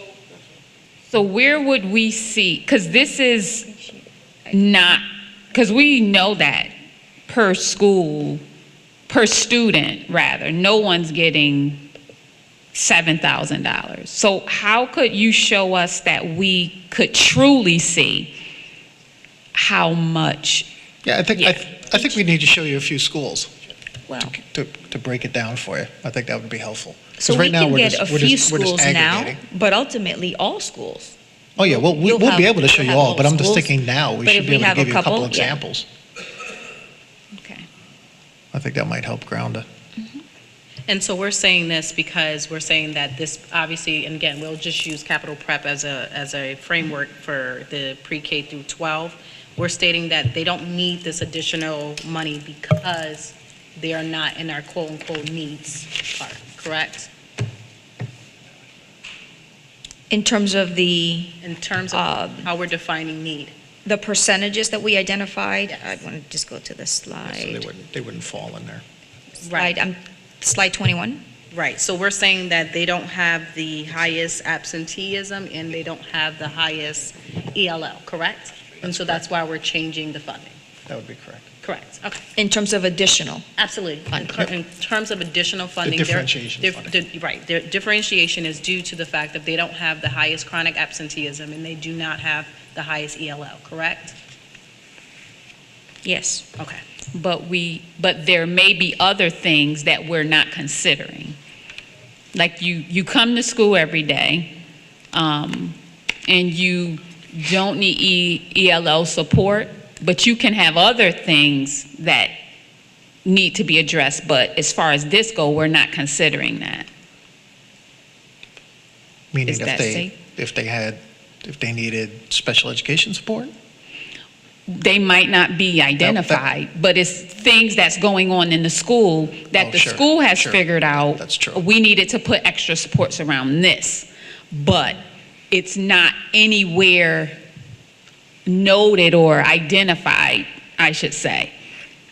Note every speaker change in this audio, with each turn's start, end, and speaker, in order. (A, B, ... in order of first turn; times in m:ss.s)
0:01.1-0:03.7 A
0:03.7-0:04.0 B
0:04.5-0:06.7 A
0:07.3-0:08.4 A
0:09.1-0:11.8 A
0:12.7-0:18.3 A
0:19.5-0:20.7 A
0:21.0-0:23.5 C
0:21.3-0:21.6 A
0:24.1-0:24.4 B
0:24.2-0:29.4 C
0:27.2-0:31.1 B
0:31.6-0:35.8 C
0:31.7-0:35.6 B
0:37.3-0:37.6 A
0:38.5-0:39.6 C
0:40.9-0:57.1 D
1:00.1-1:01.4 B
1:01.4-1:03.5 D
1:01.9-1:02.5 B
1:03.8-1:07.7 B
1:07.2-1:08.8 C
1:09.4-1:09.7 D
1:09.5-1:11.2 B
1:11.5-1:20.6 D
1:18.8-1:19.2 C
1:20.9-1:21.5 C
1:21.6-1:22.2 D
1:22.4-1:23.4 B
1:23.6-1:34.2 D
1:24.2-1:24.5 C
1:25.8-1:26.9 C
1:36.0-1:36.5 B
1:37.1-1:41.4 A
1:42.3-1:44.5 A
1:45.1-1:52.3 A
1:53.2-1:56.9 A
1:59.3-2:03.5 C
1:59.5-2:00.1 B
2:04.7-2:17.4 A
2:06.0-2:06.4 C
2:09.5-2:11.6 C
2:18.4-2:21.5 A